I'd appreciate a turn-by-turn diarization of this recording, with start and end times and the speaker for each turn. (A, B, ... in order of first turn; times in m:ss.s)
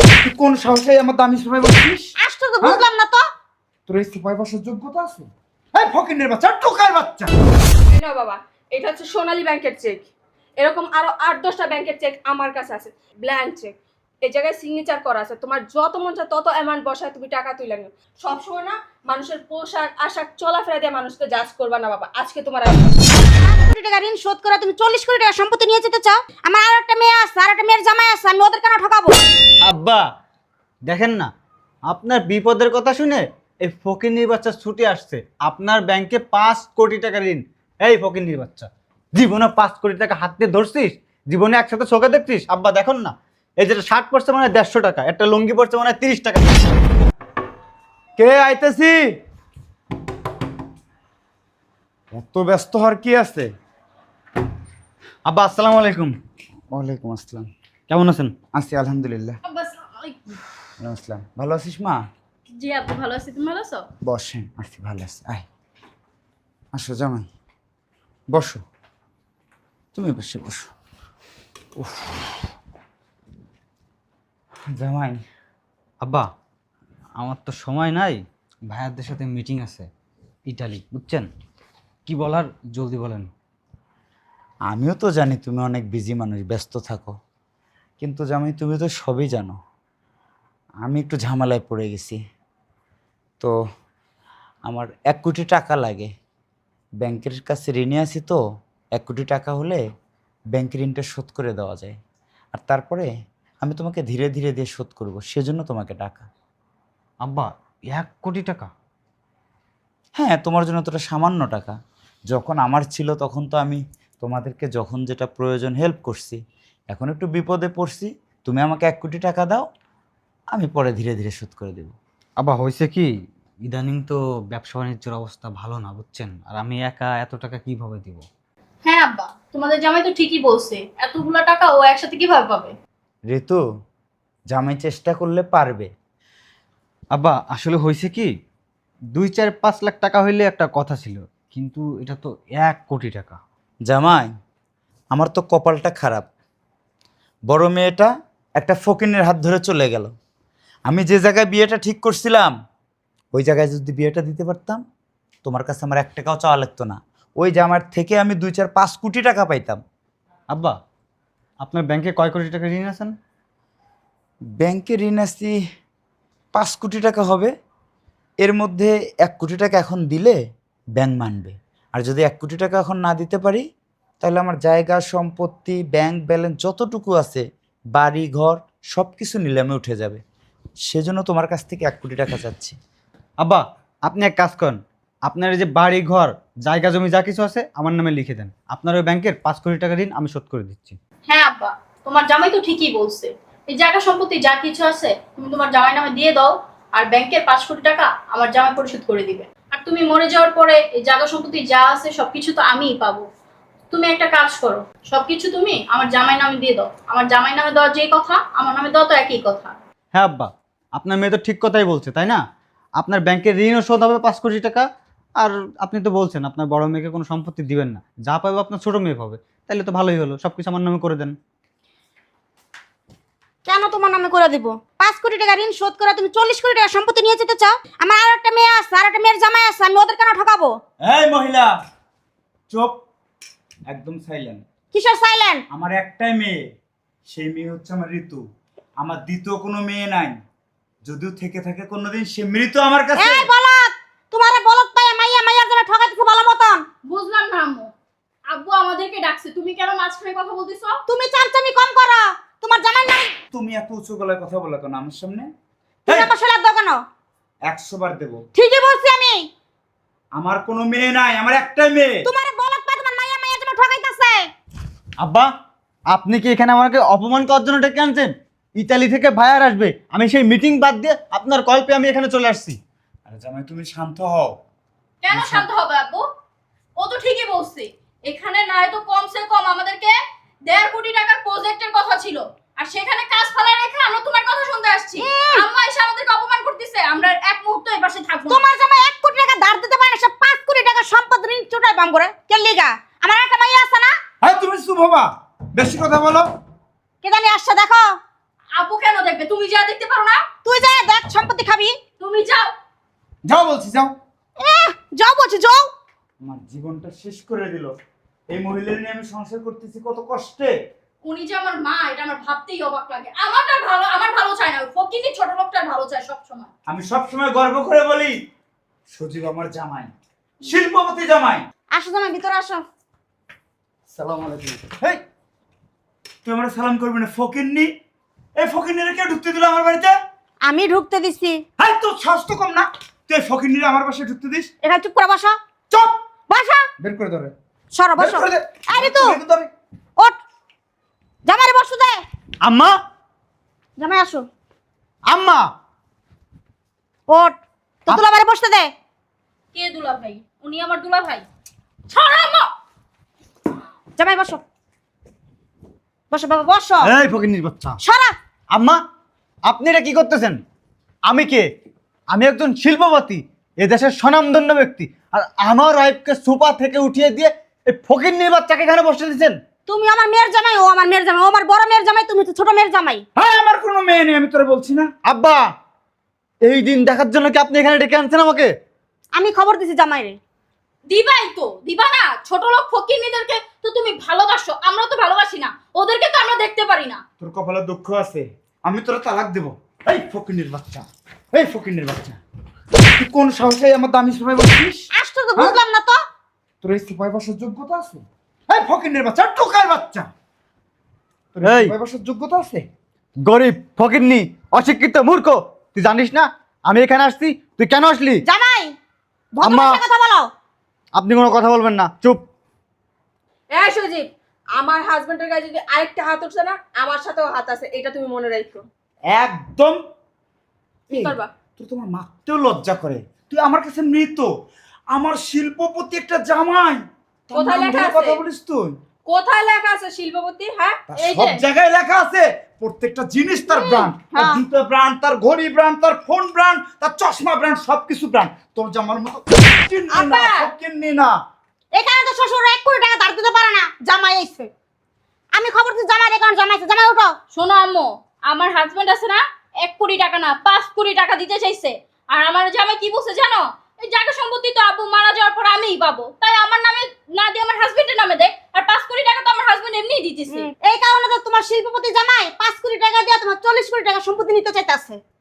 0:00.2-0:02.8 A
0:02.2-0:03.2 B
0:03.9-0:07.3 A
0:07.9-0:10.0 C
0:10.6-0:23.0 C
0:23.4-0:29.2 B
0:29.6-0:30.0 D
0:30.9-0:31.3 D
0:31.9-0:46.7 D
0:48.2-0:49.0 A
0:52.1-0:53.5 A
0:55.2-0:56.1 D
0:56.7-0:57.5 A
0:57.9-0:58.3 D
0:58.6-0:59.4 A
0:59.4-1:00.4 E
1:00.8-1:02.0 A
1:02.6-1:03.9 E
1:04.0-1:05.4 A
1:06.7-1:07.3 A
1:08.3-1:08.6 A
1:09.9-1:10.7 A
1:11.8-1:12.1 A
1:14.7-1:15.2 A
1:16.0-1:16.3 D
1:17.2-1:19.9 D
1:20.4-1:21.3 D
1:22.0-1:23.3 D
1:24.7-1:27.2 A
1:28.0-1:29.6 A
1:30.8-1:32.2 A
1:34.7-1:36.1 A
1:37.0-1:38.4 A
1:38.9-1:39.8 A
1:40.5-1:42.0 A
1:42.5-1:43.1 A
1:43.6-1:46.3 A
1:47.2-1:48.7 D
1:50.2-1:51.8 A
1:52.3-1:56.4 A
1:56.9-1:59.7 A
2:00.5-2:02.0 A
2:02.4-2:03.1 D
2:03.7-2:08.2 D
2:08.8-2:12.8 E
2:13.3-2:13.6 A
2:14.5-2:15.9 A
2:17.1-2:18.3 D
2:19.2-2:23.4 D
2:23.8-2:24.3 A
2:25.1-2:26.3 A
2:27.5-2:30.1 A
2:30.9-2:32.5 A
2:33.3-2:34.8 A
2:35.4-2:39.8 A
2:41.6-2:43.2 D
2:44.6-2:45.5 A
2:46.5-2:47.5 A
2:48.4-2:50.4 A
2:51.0-2:53.7 A
2:54.2-3:00.2 A
3:00.9-3:02.8 A
3:03.4-3:11.0 D
3:11.3-3:23.3 E
3:23.9-3:29.8 E
3:30.2-3:32.4 D
3:33.0-3:34.8 D
3:35.4-3:41.4 D
3:43.7-3:50.8 B
3:51.0-3:51.7 A
3:52.7-3:53.0 A
3:53.9-3:54.6 A
3:54.9-3:55.6 B
3:55.7-3:56.6 A
3:57.3-3:58.4 A
3:59.0-4:00.4 A
4:01.0-4:03.5 A
4:03.2-4:06.8 B
4:07.0-4:07.9 E
4:08.5-4:11.0 E
4:11.1-4:13.3 B
4:13.5-4:15.5 A
4:16.1-4:17.0 B
4:17.7-4:18.4 A
4:18.6-4:19.5 B
4:20.4-4:22.2 A
4:22.3-4:24.5 B
4:25.2-4:25.5 D
4:26.1-4:32.8 D
4:33.3-4:34.6 A
4:35.2-4:36.3 E
4:35.3-4:35.7 A
4:37.0-4:40.2 E
4:40.7-4:48.7 E
4:45.2-4:45.6 B
4:48.5-4:54.2 B
4:54.4-4:56.5 A
4:57.2-4:58.1 B
4:58.8-5:00.4 E
5:00.6-5:02.0 B
5:02.2-5:02.7 E
5:03.5-5:04.2 A
5:04.6-5:05.9 B
5:06.4-5:07.9 A
5:08.5-5:10.8 A
5:11.2-5:16.7 E
5:16.9-5:18.4 A
5:19.1-5:21.7 A
5:22.0-5:22.9 B
5:24.2-5:25.2 A
5:26.4-5:27.9 A
5:28.6-5:30.2 A
5:30.6-5:31.6 B
5:31.8-5:34.7 A
5:34.8-5:35.6 B
5:35.9-5:36.2 A
5:36.5-5:36.8 B
5:37.0-5:37.5 A
5:38.0-5:39.4 B
5:38.2-5:39.7 A
5:41.5-5:42.2 B
5:42.6-5:42.9 D
5:44.0-5:44.5 B
5:45.3-5:45.6 D
5:47.3-5:48.9 B
5:49.7-5:51.5 E
5:52.1-5:52.7 E
5:54.2-5:54.6 B
5:56.3-5:57.1 B
5:57.0-5:58.0 D
5:58.0-5:58.4 B
5:58.7-5:59.0 D
5:59.7-6:00.6 D
6:01.3-6:01.7 D
6:02.3-6:09.6 D
6:09.9-6:13.2 B
6:13.4-6:15.1 A
6:15.2-6:15.6 D
6:16.6-6:18.7 D
6:19.4-6:20.4 B
6:21.1-6:27.2 E
6:27.4-6:32.4 A
6:33.2-6:35.8 A
6:35.2-6:36.2 B
6:36.8-6:40.3 A
6:41.6-6:42.8 A
6:41.6-6:41.9 D
6:43.4-6:48.4 D
6:48.5-6:49.0 B
6:49.6-6:50.5 B
6:49.6-6:50.0 D
6:51.2-6:52.4 D
6:53.7-6:54.3 C
6:54.8-6:58.8 C
6:59.3-7:00.0 A
7:01.1-7:01.5 C
7:01.1-7:04.5 A
7:05.1-7:09.0 A
7:07.5-7:08.4 C
7:09.3-7:11.6 C
7:11.1-7:21.4 A
7:13.7-7:14.6 B
7:20.1-7:20.7 C
7:22.0-7:24.7 B
7:25.6-7:27.3 B
7:27.5-7:40.7 E
7:40.5-7:45.2 B